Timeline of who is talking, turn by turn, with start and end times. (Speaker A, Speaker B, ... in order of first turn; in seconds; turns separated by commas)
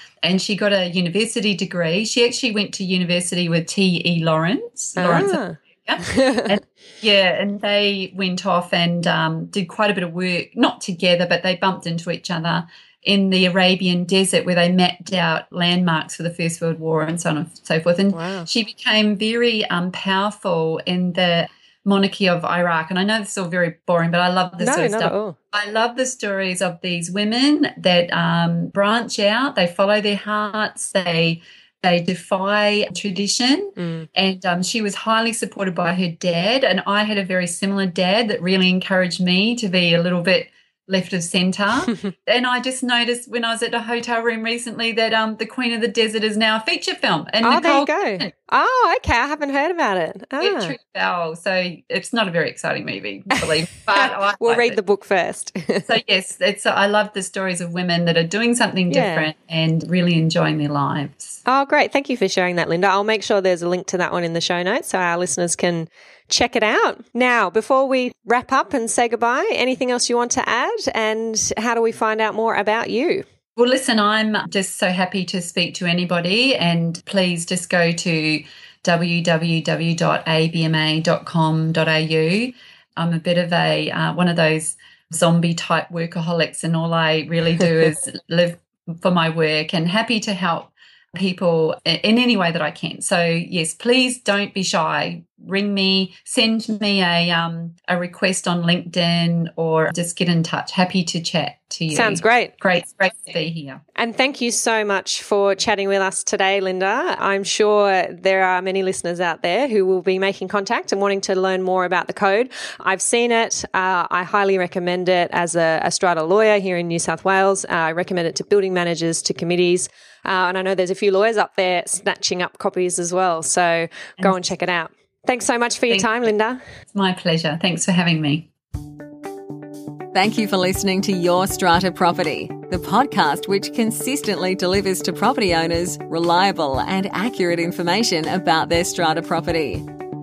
Speaker A: 0.2-48.3, Speaker B: 5.0-6.5, Speaker B: 18.1-18.5, Speaker B: 24.6-25.4, Speaker B: 33.8-34.1, Speaker B: 47.4-50.8, Speaker A: 50.4-54.8, Speaker B: 53.9-55.9, Speaker A: 55.9-61.4, Speaker B: 58.9-59.3, Speaker B: 61.5-73.2, Speaker A: 73.5-103.8, Speaker B: 101.9-102.5, Speaker B: 104.0-126.6, Speaker A: 125.9-126.2, Speaker A: 126.9-128.5, Speaker C: 130.1-139.9